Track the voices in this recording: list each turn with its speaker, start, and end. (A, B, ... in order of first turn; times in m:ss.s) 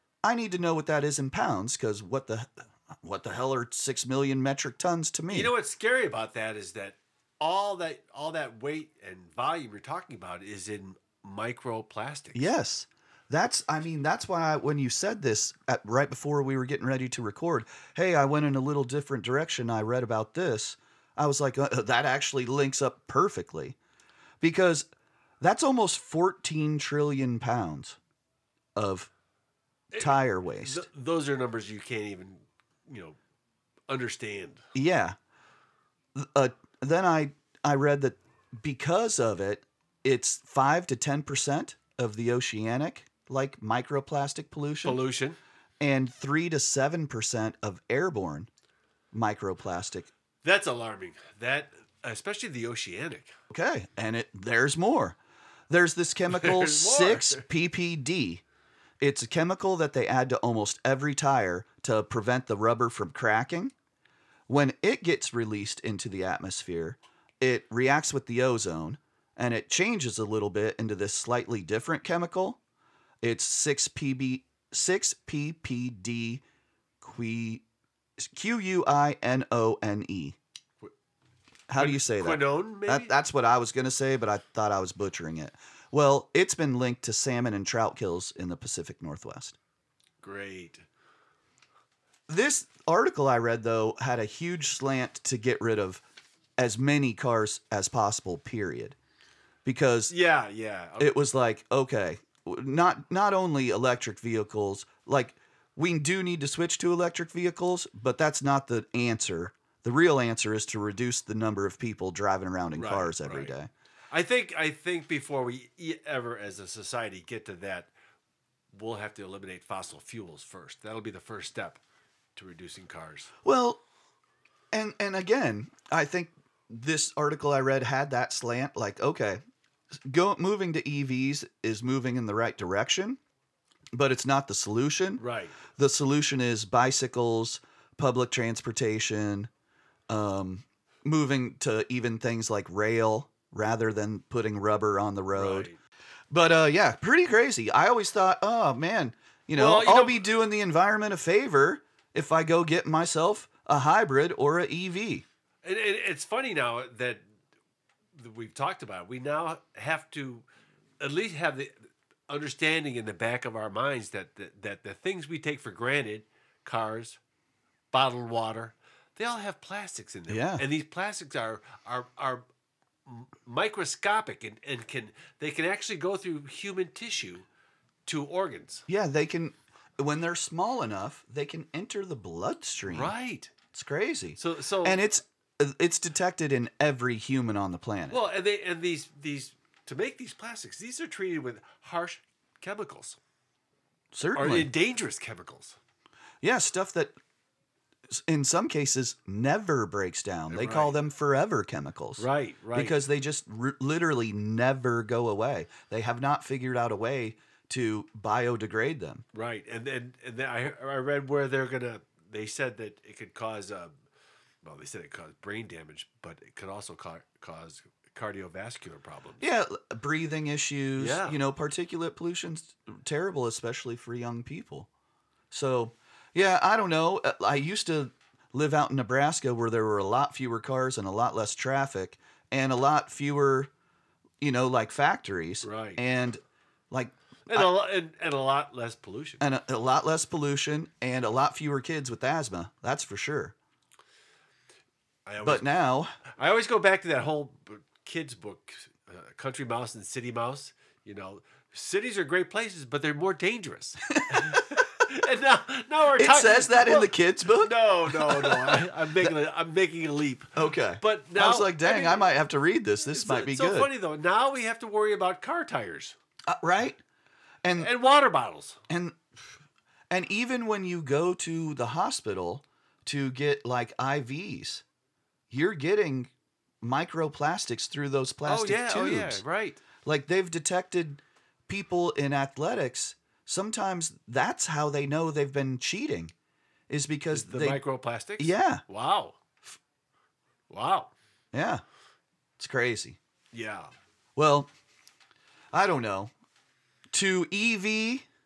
0:00.2-0:05.5 A
0:05.3-0:12.4 B
0:12.3-0:23.8 A
0:24.4-0:24.9 A
0:25.4-0:28.0 A
0:28.8-0:29.1 A
0:29.9-0:33.2 B
0:30.0-0:30.9 A
0:33.9-0:34.6 B
0:34.7-0:35.2 A
0:36.2-0:45.0 A
0:44.8-0:45.4 B
0:45.8-0:48.5 A
0:49.1-0:50.1 A
0:50.4-0:53.4 B
0:53.5-0:55.2 A
0:55.7-0:58.4 A
0:56.3-0:57.4 B
0:59.0-1:03.7 A
1:04.5-1:12.6 A
1:13.2-1:16.4 A
1:17.0-1:17.6 A
1:18.2-1:20.4 A
1:21.7-1:29.6 A
1:21.8-1:23.1 B
1:30.2-1:30.9 B
1:32.3-1:36.0 A
1:36.6-1:39.0 A
1:39.6-1:40.1 A
1:40.1-1:41.2 B
1:41.0-1:53.7 A
1:52.8-1:53.6 B
1:54.1-1:57.9 B
1:58.7-2:01.8 B
2:02.4-2:03.3 B
2:03.4-2:03.8 A
2:04.7-2:09.4 A
2:10.0-2:13.2 A
2:14.0-2:19.5 A
2:15.2-2:15.6 B
2:20.1-2:25.7 A
2:25.3-2:25.8 B
2:26.3-2:35.2 A
2:29.6-2:30.2 B
2:35.6-2:37.2 B
2:38.2-2:40.4 B
2:41.0-2:47.2 B
2:47.9-2:52.4 B
2:50.3-2:50.6 A
2:53.1-2:57.5 B
2:58.1-2:58.8 B
2:58.9-3:03.1 A
3:02.9-3:03.5 B
3:03.7-3:08.2 A
3:04.4-3:05.0 B
3:08.1-3:13.2 B
3:14.1-3:14.7 A
3:14.4-3:15.8 B
3:16.4-3:17.1 A
3:18.1-3:29.2 A
3:20.5-3:21.0 B
3:22.2-3:23.0 B
3:29.3-3:34.0 B
3:34.6-3:39.4 B
3:39.4-3:44.9 A
3:41.0-3:41.4 B
3:45.5-3:53.7 A
3:54.4-3:56.4 A
3:55.6-3:56.0 B
3:56.9-3:57.7 A
3:57.5-3:59.4 B
3:59.4-4:03.6 A
4:05.3-4:05.7 B
4:05.4-4:06.1 A
4:06.4-4:22.3 B
4:14.1-4:14.6 A
4:16.2-4:19.3 A
4:20.6-4:23.9 A
4:23.1-4:26.2 B
4:26.5-4:27.0 A
4:27.6-4:27.9 A
4:27.8-4:28.8 B
4:28.9-4:29.2 A
4:30.1-4:34.8 A
4:35.5-4:36.3 A
4:36.8-4:39.4 A
4:38.5-4:39.8 B
4:40.0-4:46.3 A
4:46.9-4:47.8 A
4:47.3-4:49.4 B
4:48.4-4:48.8 A
4:50.7-4:51.1 B
4:51.5-4:51.8 A
4:52.6-4:53.2 A
4:53.5-4:53.9 B
4:54.4-4:54.7 A
4:55.7-4:56.3 A
4:57.1-4:58.2 A